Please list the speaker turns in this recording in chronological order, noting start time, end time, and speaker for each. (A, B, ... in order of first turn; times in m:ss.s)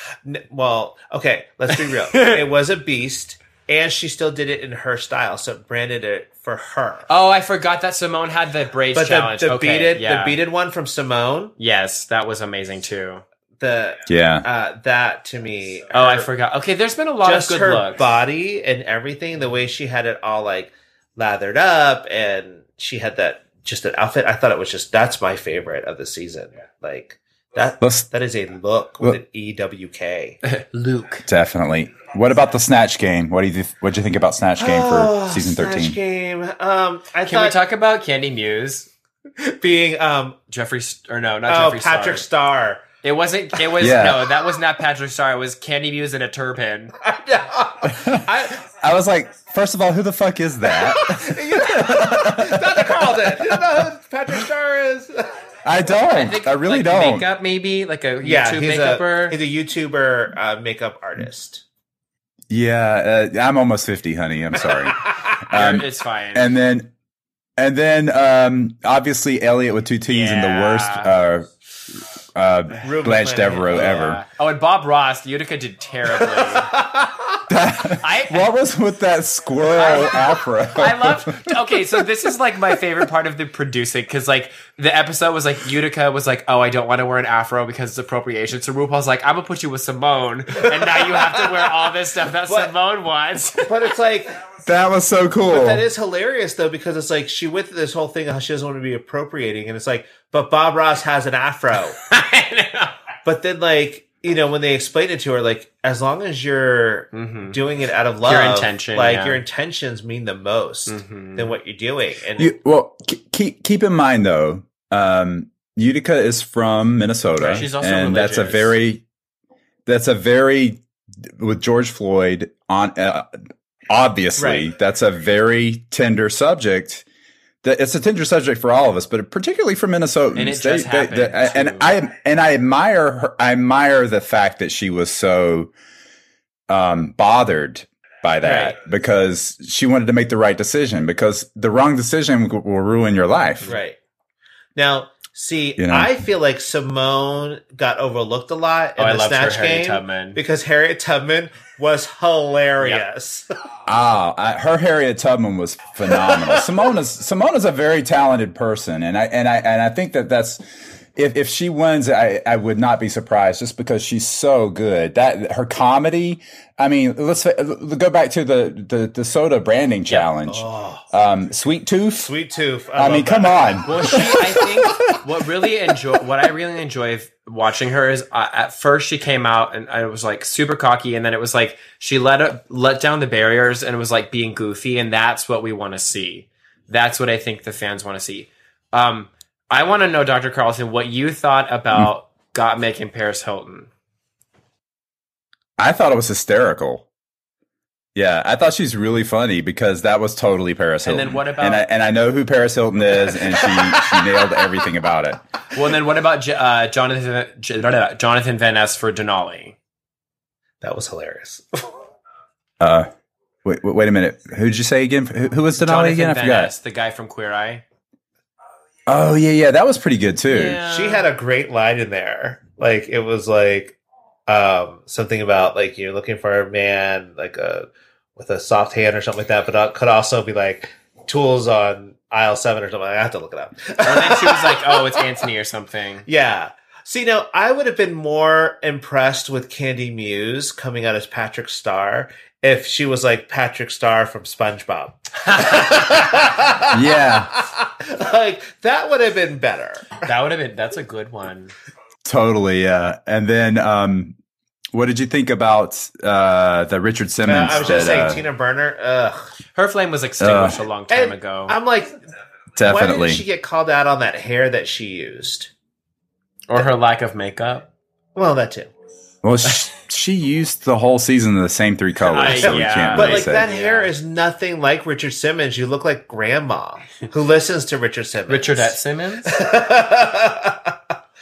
0:00.2-0:07.1 A
0:02.1-0:02.4 B
0:07.1-0:10.4 B
0:08.9-0:11.5 A
0:11.6-0:13.2 B
0:13.6-0:16.3 A
0:14.1-0:14.4 C
0:15.9-0:18.0 B
0:17.2-0:30.4 A
0:27.8-0:28.1 C
0:30.4-0:31.2 B
0:31.2-0:36.0 C
0:34.6-0:37.6 A
0:37.2-0:38.9 B
0:39.4-0:40.4 A
0:40.5-0:42.2 B
0:41.5-0:42.8 A
0:43.0-0:46.9 B
0:43.8-0:44.3 C
0:47.0-0:48.6 A
0:47.8-0:53.6 C
0:50.7-0:55.3 A
0:55.6-0:57.2 C
0:56.1-0:59.4 B
0:58.2-1:01.6 A
1:02.5-1:06.9 C
1:04.7-1:05.4 A
1:05.5-1:06.5 B
1:07.6-1:14.2 C
1:10.1-1:11.1 B
1:12.8-1:14.0 A
1:13.7-1:16.7 B
1:16.2-1:17.4 A
1:17.5-1:21.5 C
1:18.0-1:18.5 B
1:19.7-1:33.7 B
1:30.6-1:31.5 A
1:32.5-1:32.7 A
1:33.6-1:34.4 A
1:34.6-1:35.8 C
1:35.5-1:42.0 A
1:42.0-1:42.9 B
1:43.2-1:52.6 A
1:47.1-1:47.6 B
1:48.2-1:49.4 B
1:50.9-1:51.5 B
1:52.4-1:59.0 C
1:57.4-1:58.7 B
1:59.8-2:03.4 C
2:03.9-2:07.0 C
2:04.4-2:04.7 A
2:07.6-2:15.7 C
2:10.3-2:11.9 B
2:16.7-2:23.7 C
2:18.4-2:18.7 B
2:23.7-2:24.0 A
2:24.8-2:33.5 A
2:25.8-2:26.1 C
2:29.0-2:30.4 B
2:33.9-2:40.6 C
2:36.1-2:36.8 A
2:41.1-2:52.3 C
2:50.5-2:51.0 A
2:52.2-2:54.2 A
2:53.0-2:55.2 C
2:53.8-3:13.9 B
3:15.8-3:17.1 C
3:18.1-3:25.4 C
3:21.0-3:21.8 B
3:23.3-3:24.3 A
3:25.7-3:29.8 B
3:30.8-3:32.0 A
3:32.8-3:33.1 C
3:33.6-3:36.7 C
3:35.7-3:37.8 B
3:39.1-3:40.8 C
3:40.5-3:41.2 B
3:40.8-3:55.3 A
3:54.0-3:56.2 B
3:56.3-4:10.3 A
4:06.9-4:07.5 C
4:10.2-4:11.7 B
4:12.2-4:14.4 C
4:14.9-4:18.4 C
4:17.4-4:19.5 A
4:17.7-4:18.4 B
4:19.7-4:21.8 B
4:20.4-4:20.8 C
4:21.1-4:22.2 A
4:22.8-4:23.4 C
4:22.8-4:25.7 A
4:26.7-4:27.9 B
4:28.4-4:28.9 A
4:29.4-4:33.6 C
4:32.2-4:34.1 B
4:32.6-4:41.0 A
4:38.5-4:39.5 B